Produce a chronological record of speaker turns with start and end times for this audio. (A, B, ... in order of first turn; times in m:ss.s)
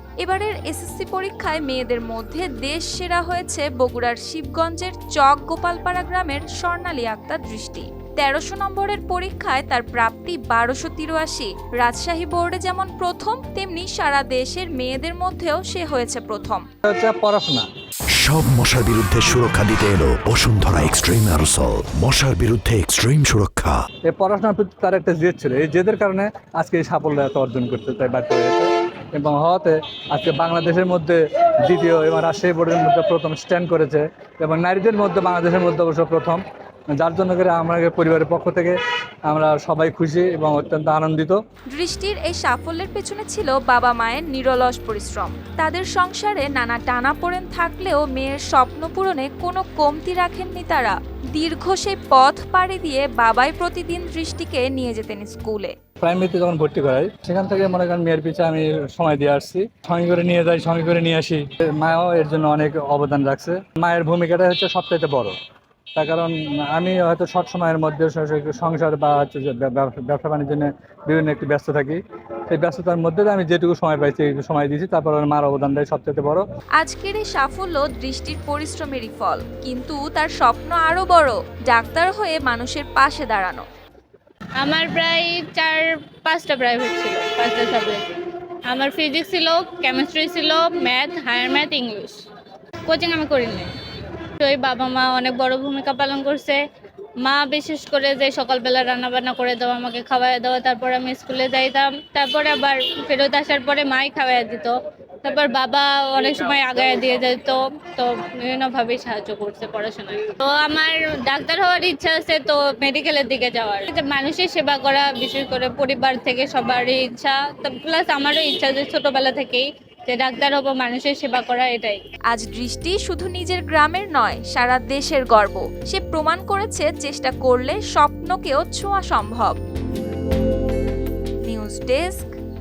0:00.2-0:16.6 A
0:16.8-0:17.7 B
0:18.1-0:23.8 C
0:24.0-0:36.4 B
0:36.9-0:38.8 B
0:39.3-0:41.4 B
0:41.7-0:55.7 A
0:56.0-1:05.4 B
1:06.0-1:16.4 B
1:16.8-1:23.6 A
1:24.6-1:28.0 D
1:28.7-1:32.2 D
1:32.9-1:33.7 D
1:34.4-1:36.6 D
1:37.2-2:02.0 D
2:02.3-2:09.6 A
2:11.4-2:12.3 A